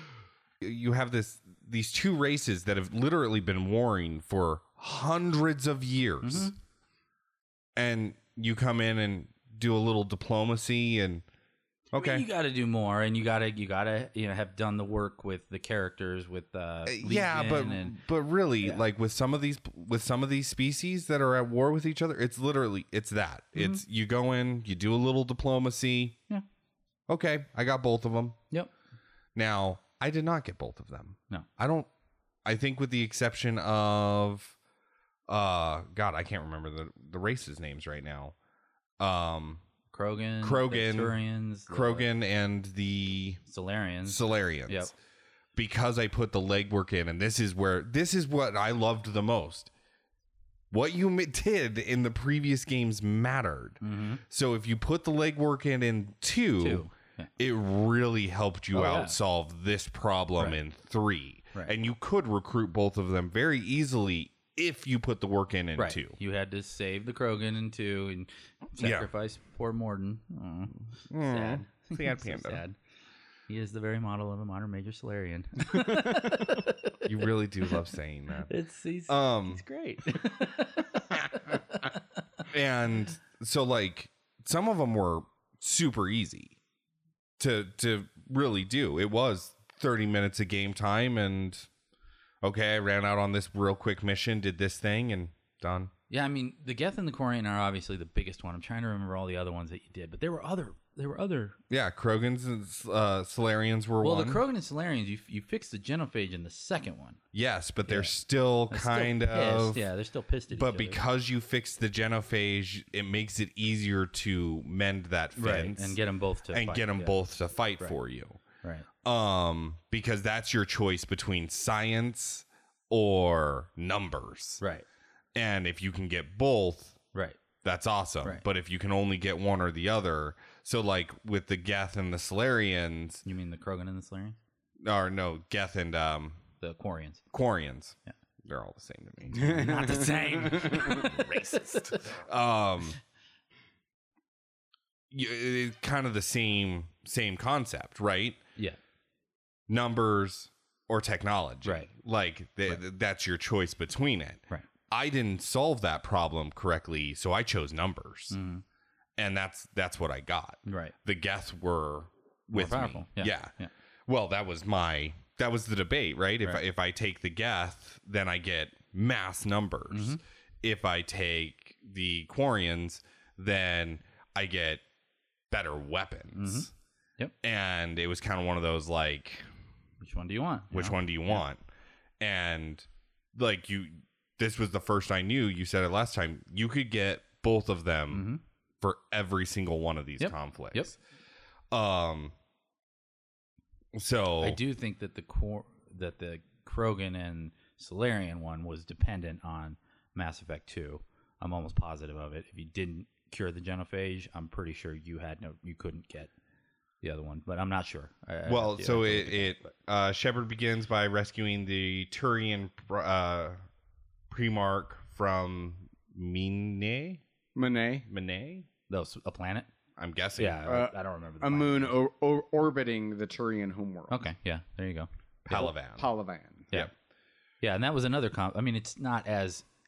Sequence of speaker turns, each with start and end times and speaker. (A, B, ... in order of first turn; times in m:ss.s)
0:00.6-0:06.5 A
0:06.2-0:06.5 B
0:07.8-0:11.2 A
0:11.9-0:12.3 A
0:11.9-0:18.0 B
0:16.8-0:26.2 A
0:23.5-0:23.8 B
0:27.1-0:28.4 A
0:29.3-0:31.9 A
0:32.4-0:34.6 A
0:35.3-0:38.3 A
0:39.0-0:39.6 A
0:39.9-0:42.1 B
0:40.4-0:41.2 A
0:41.7-0:43.4 A
0:43.4-0:44.9 B
0:44.0-0:44.9 A
0:45.6-0:49.7 A
0:50.7-0:56.9 A
0:53.8-0:54.2 B
0:56.6-0:57.3 B
0:57.4-1:06.2 A
0:58.7-0:59.2 B
1:05.8-1:12.8 B
1:08.8-1:09.1 A
1:11.1-1:12.6 A
1:13.5-1:17.0 B
1:17.0-1:18.5 A
1:18.5-1:22.0 B
1:19.1-1:19.6 A
1:22.5-1:26.6 A
1:27.4-1:31.7 A
1:32.4-1:35.9 A
1:36.1-1:41.6 B
1:41.7-1:44.4 A
1:44.0-1:47.2 B
1:47.3-1:49.8 A
1:47.8-1:48.1 B
1:48.7-1:51.0 B
1:50.5-1:56.0 A
1:55.4-1:57.1 B
1:56.5-1:58.4 A
1:59.0-2:04.6 A
2:04.6-2:04.8 B
2:05.3-2:07.0 A
2:07.1-2:07.4 B
2:07.6-2:13.2 A
2:13.2-2:14.4 B
2:14.8-2:16.4 A
2:16.6-2:17.2 B
2:17.3-2:23.0 A
2:19.4-2:22.0 B
2:20.5-2:20.8 C
2:25.1-2:28.4 A
2:29.7-2:38.4 A
2:31.6-2:31.9 B
2:38.3-2:38.6 B
2:39.2-2:43.5 A
2:40.6-2:40.9 B
2:42.5-2:43.7 B
2:44.1-2:54.8 A
2:49.9-2:50.2 B
2:55.5-2:56.7 A
2:56.3-2:57.3 B
2:57.4-2:59.5 A
3:00.0-3:01.4 B
3:00.7-3:01.6 A
3:02.2-3:08.3 A
3:08.1-3:08.4 B
3:08.8-3:11.0 A
3:10.2-3:10.9 B
3:11.7-3:12.3 A
3:13.9-3:14.6 A
3:14.4-3:26.3 B
3:27.0-3:29.7 B
3:28.4-3:33.6 A
3:34.3-3:37.2 A
3:37.6-3:38.1 C
3:38.1-3:38.7 A
3:38.9-3:39.7 B
3:40.0-3:40.7 A
3:40.4-3:42.0 B
3:40.6-3:44.2 C
3:44.1-3:45.7 B
3:45.4-3:46.1 A
3:45.5-3:46.7 C
3:47.6-3:49.6 B